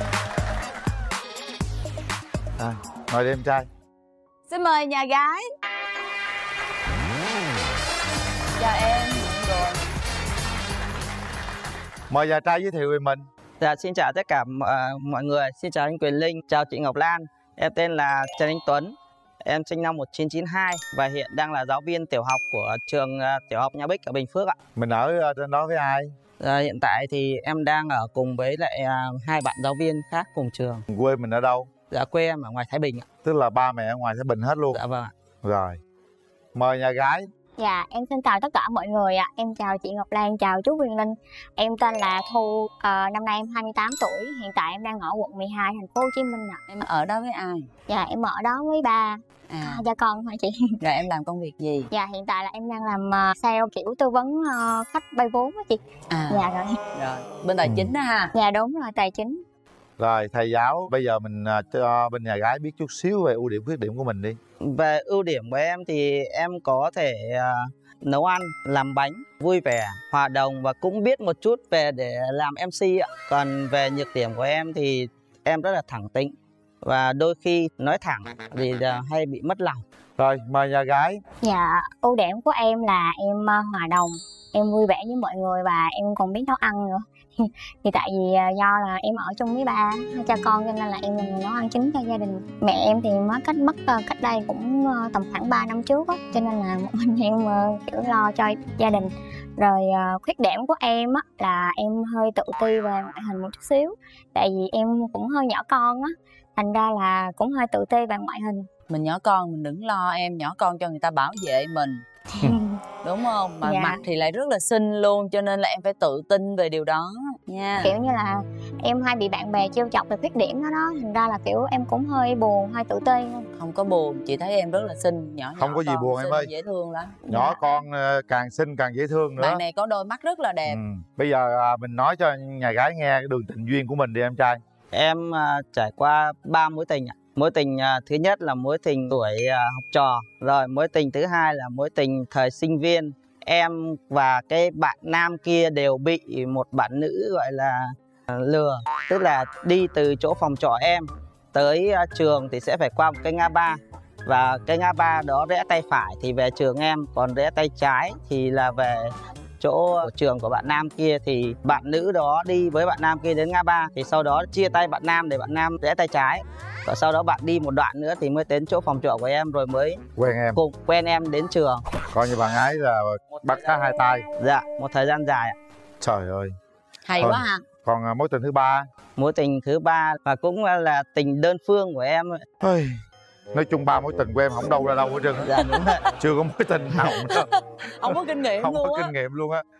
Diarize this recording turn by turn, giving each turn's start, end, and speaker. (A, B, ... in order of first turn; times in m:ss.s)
0:02.6-0:03.7 A
0:04.5-0:05.4 B
0:08.6-0:09.8 B
0:12.1-0:13.2 A
0:13.6-0:24.6 C
0:24.8-0:26.1 A
0:26.4-0:30.8 C
0:30.9-0:31.7 A
0:31.9-0:33.1 C
0:33.2-0:34.8 A
0:34.7-0:35.1 C
0:35.4-0:35.8 A
0:36.6-0:37.3 A
0:37.6-0:46.6 D
0:46.7-0:47.7 B
0:47.9-0:50.7 D
0:49.5-0:49.8 B
0:50.8-0:51.9 B
0:51.9-0:56.8 D
0:56.1-0:56.4 B
0:57.0-0:58.3 B
0:57.6-0:57.9 A
0:58.3-0:59.4 D
1:00.0-1:04.4 A
1:04.6-1:19.8 C
1:20.2-1:21.2 A
1:21.4-1:48.7 D
1:48.9-1:52.0 B
1:52.4-1:52.8 D
1:53.0-1:57.9 B
1:53.6-1:54.0 D
1:57.8-2:03.5 D
2:03.6-2:07.2 B
2:05.6-2:06.5 A
2:07.3-2:07.8 D
2:07.3-2:09.6 A
2:09.4-2:10.8 B
2:10.7-2:14.6 A
2:14.9-2:51.8 C
2:50.2-2:50.6 A
2:52.1-2:54.3 A
2:54.4-2:55.6 C
2:56.0-2:56.6 A
2:57.1-2:57.6 B
2:57.2-2:58.9 A
2:59.2-3:02.5 C
3:02.6-3:03.0 A
3:03.5-3:05.5 A
3:05.4-3:06.0 C
3:06.2-3:07.5 A
3:07.0-3:09.1 B
3:08.6-3:09.6 A